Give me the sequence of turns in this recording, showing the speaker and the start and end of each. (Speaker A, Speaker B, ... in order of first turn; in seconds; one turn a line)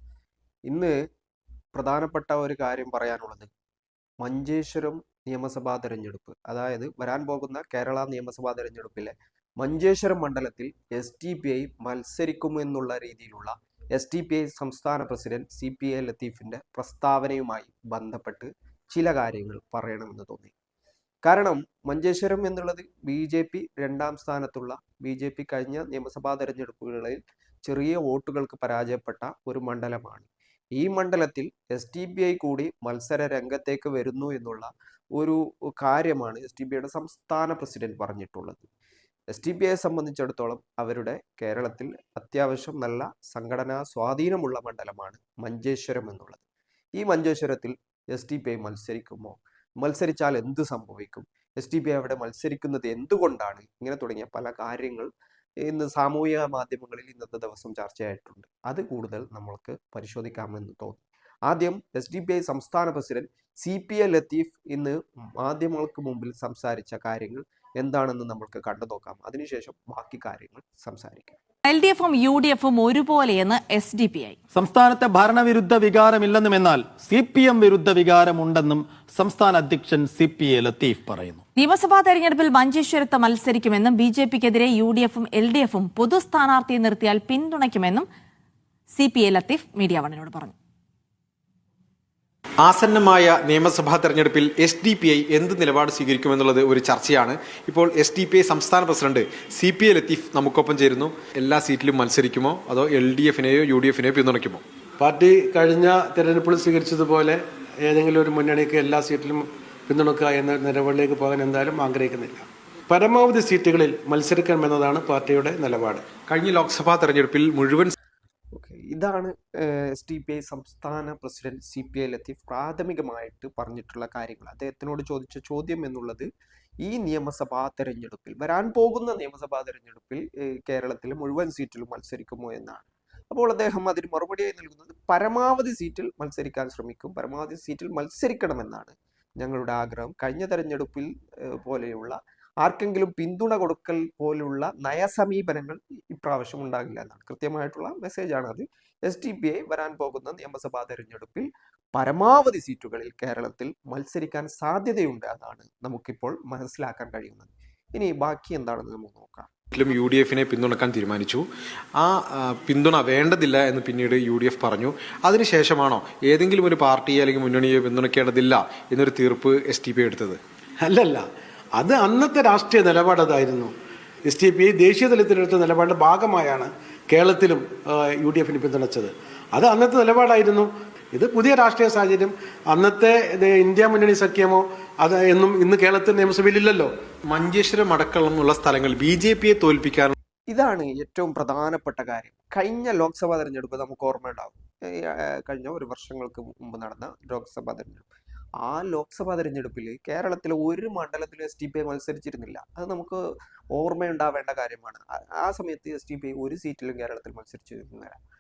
Speaker A: 0.7-1.0
Speaker A: 1.7-3.5
Speaker A: 4.2-20.5
Speaker A: 21.2-38.7
Speaker A: 39.3-46.4
Speaker A: 47.0-55.1
Speaker A: 55.6-71.3
Speaker B: 71.7-74.4
Speaker C: 74.5-81.4
Speaker B: 81.6-88.1
Speaker B: 88.9-90.5
Speaker D: 92.6-104.6
Speaker E: 105.0-116.1
Speaker D: 116.3-117.9
Speaker A: 118.5-126.3
Speaker A: 126.8-159.5
Speaker D: 159.7-170.4
Speaker E: 170.8-173.7
Speaker E: 174.3-186.9
Speaker D: 187.3-190.2
Speaker A: 190.5-198.1
Speaker A: 198.6-208.2